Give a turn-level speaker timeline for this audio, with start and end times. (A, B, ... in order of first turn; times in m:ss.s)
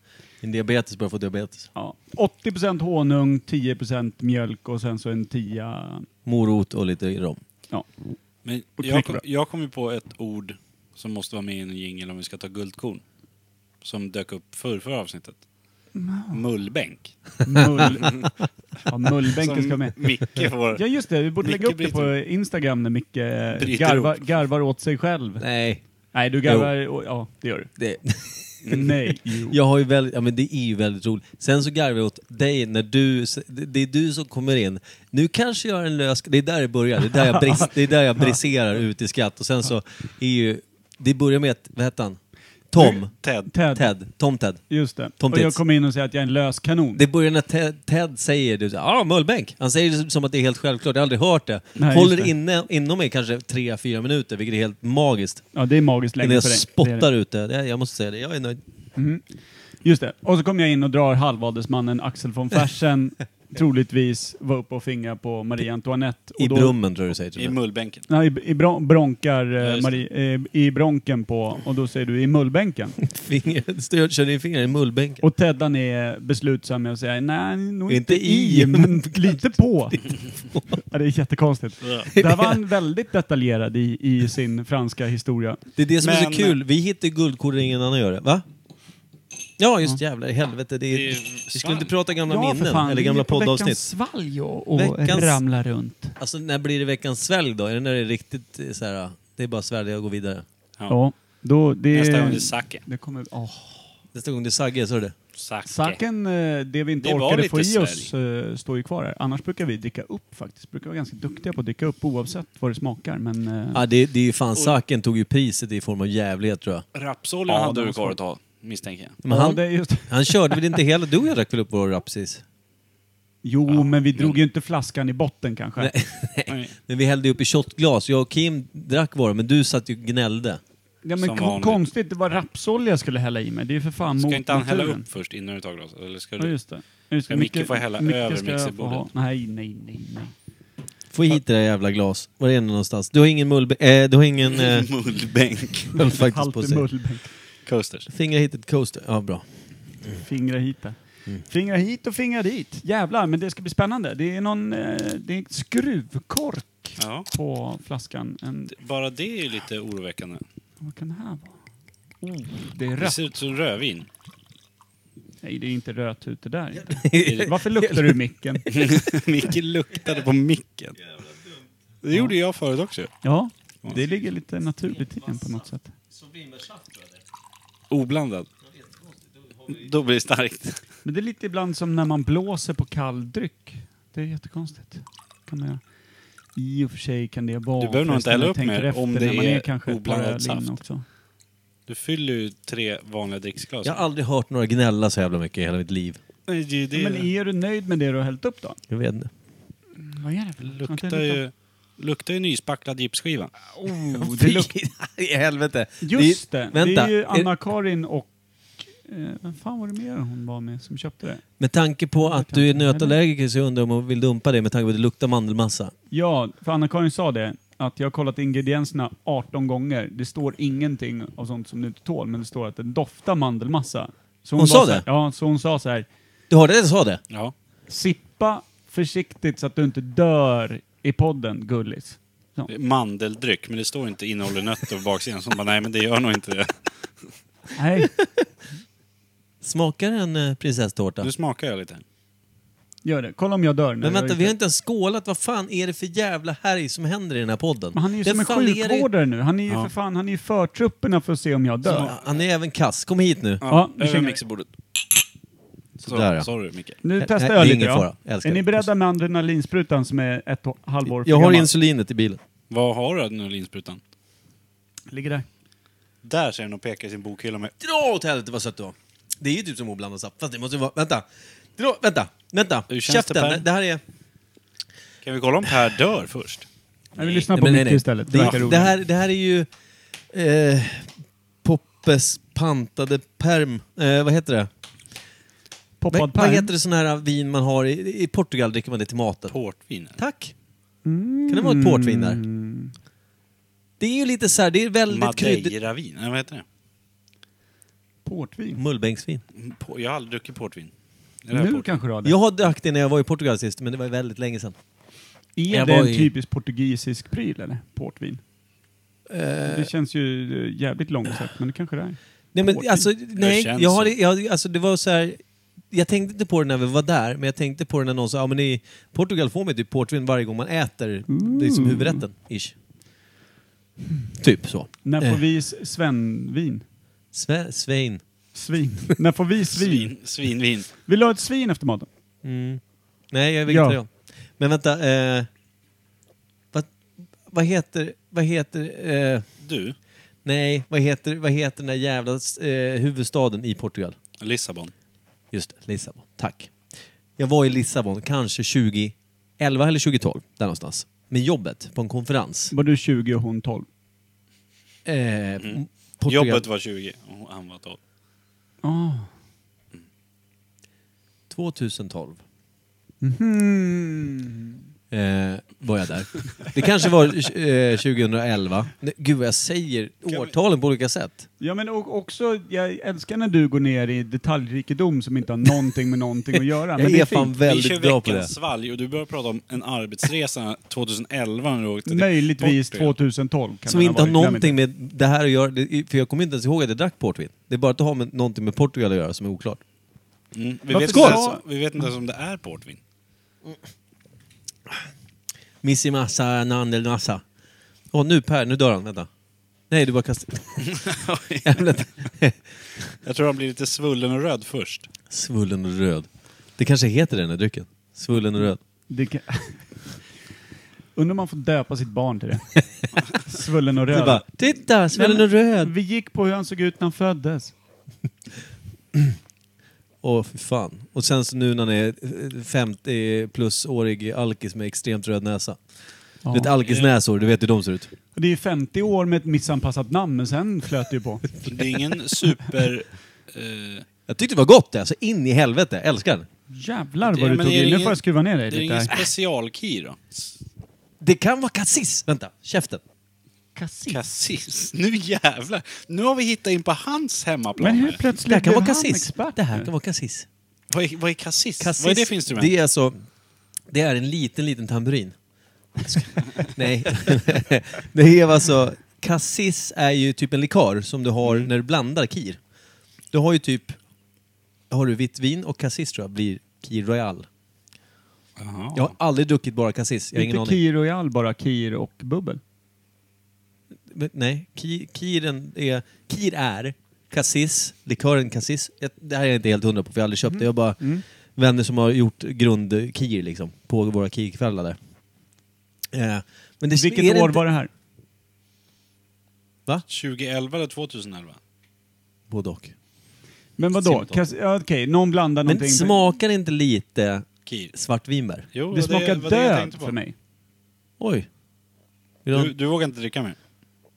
0:00.4-0:01.7 A
0:01.7-0:06.1 B
0:06.2-0:07.4 A
0:08.4-0:13.0 C
0:08.8-0:09.2 B
0:13.8-0:15.4 C
0:15.9-0:16.4 B
0:16.3-0:17.2 C
0:17.4-0:18.3 B
0:18.9-0:25.4 B
0:19.4-0:20.8 C
0:21.4-0:22.1 C
0:23.6-0:24.2 C
0:25.4-0:25.8 A
0:26.1-0:27.7 B
0:26.4-0:26.7 A
0:27.8-0:28.8 A
0:28.7-0:29.6 B
0:29.5-0:42.2 A
0:37.1-0:37.5 B
0:42.7-0:44.6 A
0:42.9-0:43.5 C
0:43.5-0:43.9 B
0:44.7-0:47.0 B
0:45.2-0:45.6 A
0:47.0-0:55.4 A
0:51.8-0:52.3 B
0:55.5-0:57.1 B
0:56.2-0:58.6 A
0:59.0-0:59.2 B
0:59.8-1:06.8 B
1:06.4-1:07.6 A
1:07.4-1:08.0 C
1:08.1-1:13.0 B
1:09.6-1:10.0 C
1:13.0-1:15.2 A
1:15.2-1:20.2 B
1:17.9-1:19.4 A
1:20.8-1:25.6 B
1:22.1-1:22.6 A
1:25.8-1:28.4 A
1:26.0-1:26.6 C
1:29.6-1:33.8 A
1:30.9-1:31.9 C
1:32.2-1:36.2 B
1:34.8-1:35.4 A
1:36.2-1:40.4 A
1:40.9-1:43.9 B
1:41.9-1:42.8 C
1:44.1-1:45.1 A
1:45.3-1:46.0 C
1:45.7-1:53.8 B
1:47.0-1:48.1 C
1:53.7-1:56.8 A
1:56.9-1:59.2 C
1:57.5-1:58.2 B
1:59.2-2:02.4 A
1:59.3-2:00.8 B
2:03.4-2:05.9 B
2:03.7-2:04.4 C
2:05.8-2:10.6 A
2:06.5-2:06.7 C
2:11.0-2:15.0 B
2:11.2-2:11.8 C
2:14.1-2:16.6 C
2:16.4-2:20.3 B
2:17.3-2:19.1 C
2:21.1-2:24.9 A
2:24.4-2:26.0 C
2:26.0-2:26.8 A
2:26.0-2:27.3 B
2:27.6-2:28.1 C
2:28.1-2:29.4 A
2:30.2-2:38.7 B
2:37.0-2:37.3 C
2:38.7-2:40.4 C
2:40.8-2:41.5 B
2:42.2-2:43.3 B
2:43.0-2:44.1 C
2:45.4-2:48.7 B
2:46.9-2:48.1 A
2:47.2-2:47.5 C
2:48.7-2:51.0 C
2:52.0-2:53.1 C
2:53.2-2:55.9 B
2:56.1-2:57.2 A
2:57.9-2:58.5 C
2:59.7-3:00.8 C
3:01.0-3:05.8 B
3:06.6-3:11.0 B
3:07.8-3:10.8 C
3:11.9-3:14.0 C
3:13.8-3:16.2 A
3:16.5-3:17.3 C
3:16.9-3:18.8 B
3:18.9-3:19.3 A
3:20.0-3:21.4 B
3:20.6-3:23.5 C
3:23.7-3:24.7 B
3:24.1-3:27.5 A
3:26.0-3:31.4 B
3:31.6-3:35.9 A
3:32.2-3:33.2 B
3:36.1-3:46.1 B
3:44.6-3:45.0 A
3:46.5-3:47.2 A
3:47.9-3:52.7 B
3:52.7-3:57.3 C
3:57.8-3:58.1 B
3:59.6-4:01.3 A
4:01.2-4:02.0 C
4:03.0-4:04.5 B
4:04.0-4:09.1 A
4:07.9-4:12.1 B
4:11.8-4:12.2 C
4:11.9-4:13.6 A
4:13.6-4:14.7 C
4:13.7-4:14.4 B
4:16.0-4:17.0 C
4:16.0-4:16.5 A
4:17.0-4:21.7 B
4:17.2-4:18.9 A
4:21.0-4:22.4 A
4:22.7-4:24.0 C
4:25.1-4:25.4 B
4:26.2-4:27.7 C
4:27.8-4:34.0 A
4:32.9-4:33.6 C
4:35.2-4:37.5 C
4:37.2-4:38.9 B
4:37.5-4:39.7 A
4:38.4-4:38.7 C
4:40.3-4:41.1 A
4:41.6-4:44.7 A
4:46.0-4:46.7 B
4:46.1-4:49.6 A
4:49.5-4:50.2 C
4:50.2-4:50.5 A
4:51.0-4:52.9 B
4:51.5-4:52.4 A
4:54.0-4:55.7 A
4:55.1-4:56.6 C
4:58.2-4:58.8 B
4:58.8-4:59.4 A
4:59.6-5:00.9 C
5:01.4-5:02.0 C
5:01.5-5:02.3 B
5:02.2-5:04.8 A
5:05.6-5:08.4 B
5:05.7-5:06.3 A
5:09.3-5:09.9 A
5:09.6-5:13.1 B
5:12.5-5:22.7 A
5:13.3-5:14.1 C
5:21.3-5:22.2 B
5:24.4-5:25.4 A
5:25.0-5:26.8 B
5:27.3-5:28.2 A
5:28.5-5:30.1 B
5:29.7-5:30.9 C
5:31.0-5:32.1 B
5:32.4-5:35.5 A
5:33.7-5:34.0 B
5:37.4-5:39.5 A
5:39.6-5:40.0 C
5:40.4-5:44.2 A
5:44.4-5:44.9 C
5:45.5-5:52.7 A
5:52.7-5:53.8 B
5:55.0-5:56.6 A
5:55.6-5:58.0 C
5:58.8-5:59.3 B
6:01.5-6:02.4 A
6:03.2-6:04.8 B
6:05.1-6:11.4 A
6:10.3-6:10.5 C
6:11.6-6:17.5 B
6:17.0-6:18.5 A
6:17.6-6:23.1 C
6:22.1-6:24.8 B
6:23.9-6:29.8 A
6:30.5-6:33.0 C
6:30.9-6:31.6 B
6:31.0-6:31.4 A
6:35.8-6:37.4 A
6:38.1-6:39.3 A
6:39.9-6:41.0 A
6:40.8-6:42.0 C
6:41.6-6:42.6 A
6:43.2-6:45.1 C
6:45.3-6:48.8 A
6:49.1-6:50.2 B
6:51.1-6:57.7 B
6:54.1-6:55.9 A
7:00.2-7:05.8 A
7:06.4-7:06.7 B
7:06.5-7:08.1 A
7:06.8-7:07.1 C
7:08.3-7:11.6 B
7:11.7-7:14.0 C
7:14.3-7:16.5 A
7:16.7-7:19.1 B
7:17.2-7:20.6 C
7:21.2-7:23.0 A
7:23.8-7:24.2 B
7:24.1-7:28.2 C
7:27.8-7:29.9 B
7:28.4-7:30.4 A
7:30.9-7:32.7 C
7:31.8-7:33.2 A
7:33.9-7:35.3 A
7:36.0-7:42.6 A
7:41.4-7:41.7 C
7:43.3-7:44.0 A
7:44.9-7:47.5 A
7:48.6-7:49.1 C
7:48.9-7:50.8 A
7:50.3-7:52.6 B
7:54.1-8:05.0 A
8:00.5-8:01.2 B
8:06.1-8:07.6 A
8:06.9-8:07.9 B
8:10.1-8:11.6 C
8:12.5-8:12.9 A
8:13.8-8:16.2 B
8:14.0-8:14.4 A
8:15.6-8:18.7 A
8:17.6-8:17.9 C
8:18.7-8:20.2 C
8:18.9-8:20.3 B
8:21.2-8:21.5 A
8:22.4-8:22.7 A
8:22.5-8:23.6 C